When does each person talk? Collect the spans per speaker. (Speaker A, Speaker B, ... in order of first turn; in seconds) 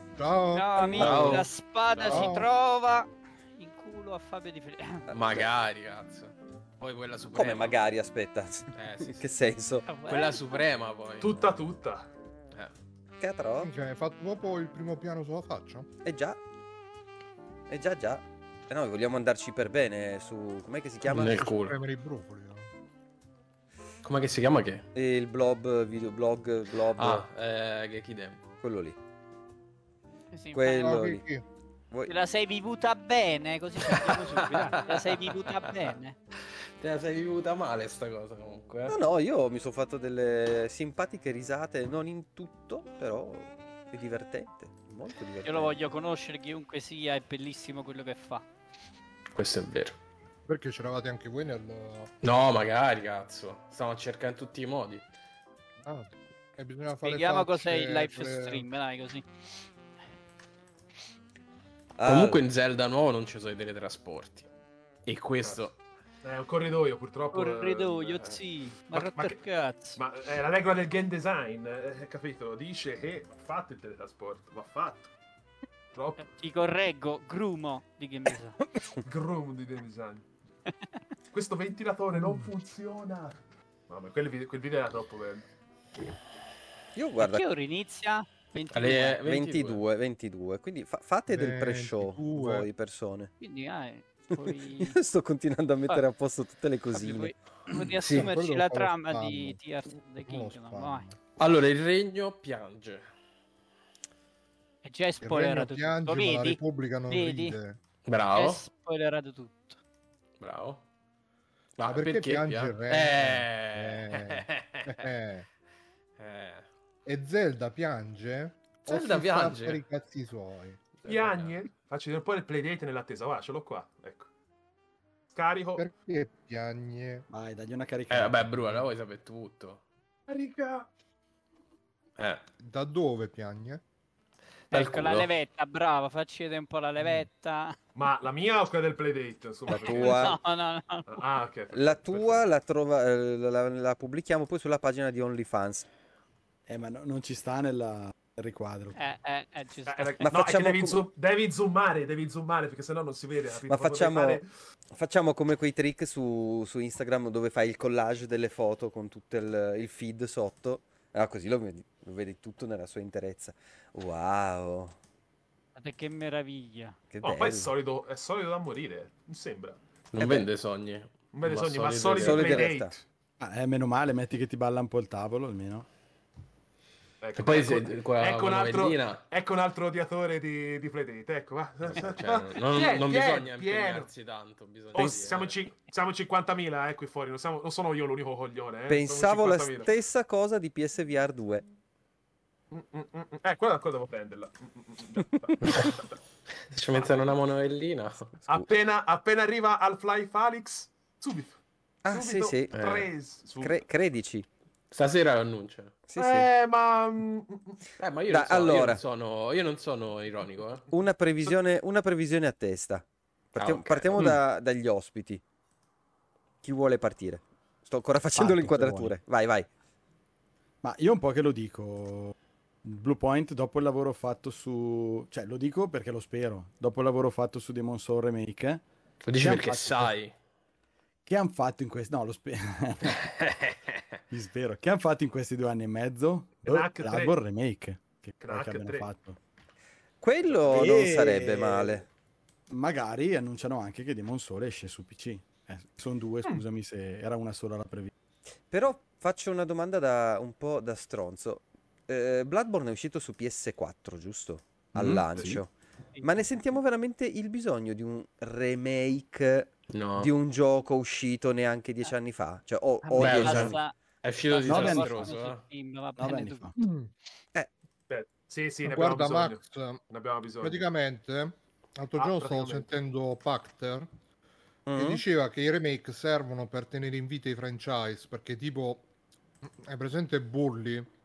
Speaker A: 0.2-1.4, 2.1-2.5, 13.6-15.9, 21.1-22.7, 30.8-31.4, 50.5-52.1, 55.8-58.6, 82.2-82.5, 91.3-92.7, 98.0-99.6, 100.2-101.2, 105.2-107.8, 111.8-115.5, 117.0-120.8, 125.8-127.2, 132.6-133.8, 266.8-267.1, 268.8-270.0, 270.6-274.1, 274.9-279.0, 279.6-281.1
Speaker B: 0.5-5.0, 9.9-10.6, 30.3-31.0, 32.1-36.1, 45.4-48.4, 57.0-59.2, 67.3-70.0, 76.2-78.6, 87.2-89.2, 93.4-94.9, 96.9-101.0, 104.8-107.6, 108.3-109.8, 134.7-137.8, 139.8-141.1, 148.9-150.2, 165.8-167.0, 263.0-263.9, 264.4-266.7
Speaker C: 1.0-2.3, 5.1-7.8, 8.7-9.3, 10.0-11.6, 21.1-21.8, 24.0-24.9, 26.9-28.4, 33.9-35.5, 36.8-39.0, 49.3-50.0, 52.2-55.0, 62.0-64.5, 65.0-65.8, 88.7-89.8, 101.4-103.0, 108.0-108.6, 110.4-110.8, 111.8-115.1, 116.2-116.7, 118.9-119.8, 121.0-121.6, 128.1-129.8, 132.2-132.4, 134.7-135.3, 170.1-172.7, 177.3-179.2, 181.8-185.6, 196.7-198.3, 202.7-203.1, 204.9-205.9, 208.0-210.8, 213.6-214.4, 229.2-230.3, 233.1-234.2, 255.0-255.6, 259.9-260.3, 263.2-265.6
Speaker D: 5.1-5.5, 7.3-9.8, 13.2-13.7, 16.0-16.4, 17.7-21.5, 24.9-27.2, 28.6-29.0, 30.5-31.2, 38.9-45.8, 62.0-62.4, 86.9-87.5, 89.2-93.3, 94.3-97.3, 139.7-140.3, 141.7-145.9, 150.2-151.0, 153.7-154.4, 154.9-165.0, 167.1-167.7, 170.2-170.5, 172.2-172.9, 185.0-185.3, 188.9-191.7, 202.0-202.7, 203.6-204.5, 206.1-206.5, 208.3-209.0, 210.9-215.4, 216.6-219.7, 240.2-242.1, 248.7-255.7, 256.2-263.8, 274.9-275.2
Speaker E: 11.2-12.1, 65.4-65.7, 66.2-68.4, 68.9-69.4, 69.9-75.1, 75.9-76.2, 79.0-80.3, 81.3-85.4, 121.0-124.3, 125.3-125.8, 130.3-130.8, 137.9-140.3, 141.1-142.4, 149.8-154.5, 167.2-169.8, 171.3-172.9, 177.2-184.1, 184.9-189.9, 192.7-196.1, 198.5-203.8, 206.2-207.8, 236.6-237.3, 238.4-239.1, 240.4-240.8, 268.1-270.8, 272.1-272.9
Speaker F: 127.3-128.7, 146.7-148.9, 173.4-175.9, 218.3-219.1, 220.8-228.8, 229.3-230.1, 231.2-233.2, 234.3-239.4, 240.7-242.1, 242.7-248.1, 264.6-265.2, 266.2-266.7